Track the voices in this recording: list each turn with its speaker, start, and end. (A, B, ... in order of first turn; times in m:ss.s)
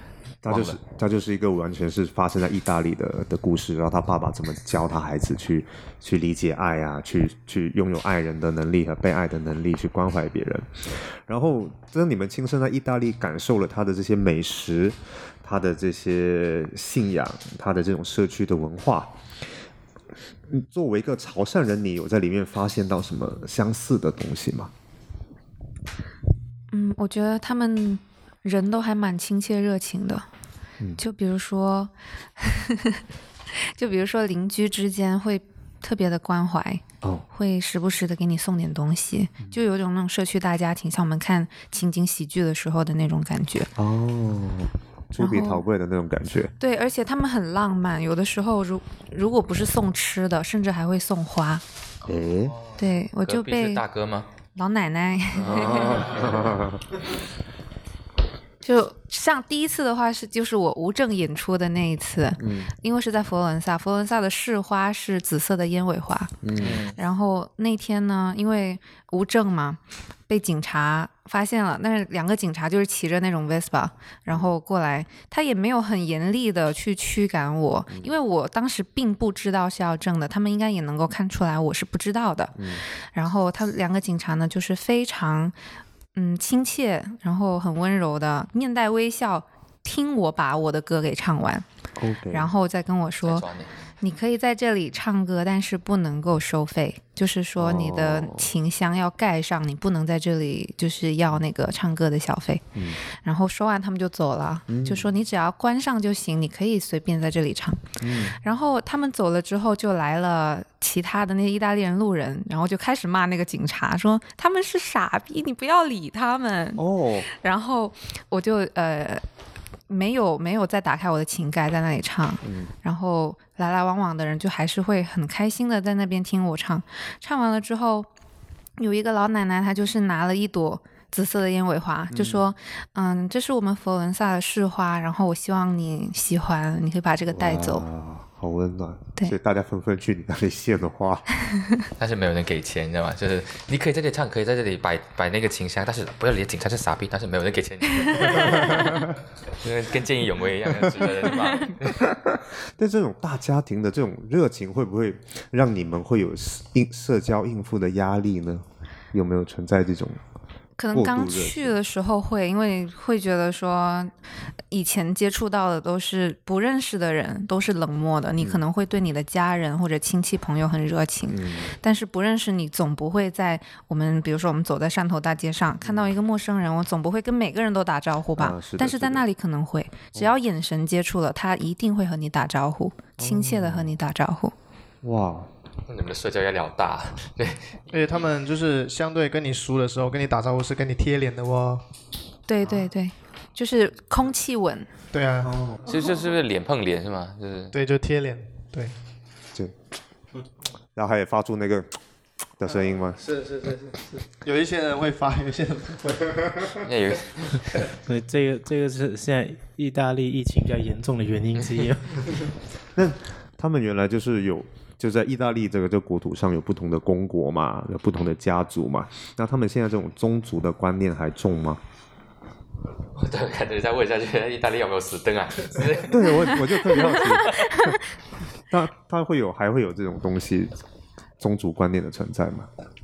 0:00.4-0:19.2 A
0:00.4-0:00.8 B
0:20.5-0:24.7 A
0:26.7-0:30.2 C
0:31.0-0:33.0 C
0:33.6-0:43.7 C
0:43.8-0:46.5 A
0:45.2-0:45.6 C
0:46.6-0:51.6 C
0:52.0-0:52.6 A
0:52.8-0:53.8 C
0:53.2-0:54.3 B
0:54.5-0:56.1 C
0:55.3-0:56.8 A
0:58.6-1:06.4 C
1:02.4-1:02.7 A
1:06.4-1:06.8 A
1:06.6-1:07.0 B
1:06.9-1:25.5 C
1:17.9-1:18.2 A
1:22.6-1:22.8 A
1:26.1-1:31.6 C
1:32.0-1:32.5 A
1:32.3-1:33.5 C
1:33.2-1:33.7 B
1:34.0-1:47.8 C
1:37.6-1:38.5 A
1:44.7-1:45.1 A
1:48.0-1:48.4 A
1:48.4-1:59.2 C
1:56.8-1:57.3 A
1:59.9-2:08.1 C
2:02.4-2:02.7 A
2:08.8-2:17.8 C
2:12.1-2:12.4 A
2:17.3-2:21.3 A
2:21.5-2:21.8 C
2:22.0-2:29.0 B
2:28.6-2:28.9 A
2:29.6-2:32.1 B
2:32.0-2:40.2 A
2:40.8-2:44.1 C
2:40.9-2:41.7 A
2:44.7-3:04.5 C
2:51.3-2:51.7 A
2:55.8-2:56.1 A
2:58.4-2:59.2 A
3:03.2-3:04.0 A
3:05.0-3:05.5 A
3:05.9-3:08.2 B
3:07.9-3:11.8 D
3:12.5-3:14.9 C
3:15.1-3:15.5 D
3:15.4-3:15.8 A
3:15.8-3:17.7 B
3:17.7-3:18.9 D
3:20.9-3:21.9 A
3:22.6-3:23.3 A
3:23.2-3:26.8 D
3:26.8-3:27.6 B
3:28.0-3:32.3 E
3:32.9-3:41.8 A
3:43.1-3:46.6 B
3:46.0-3:48.0 A
3:46.9-3:48.0 C
3:48.7-3:50.8 A
3:51.4-3:52.7 A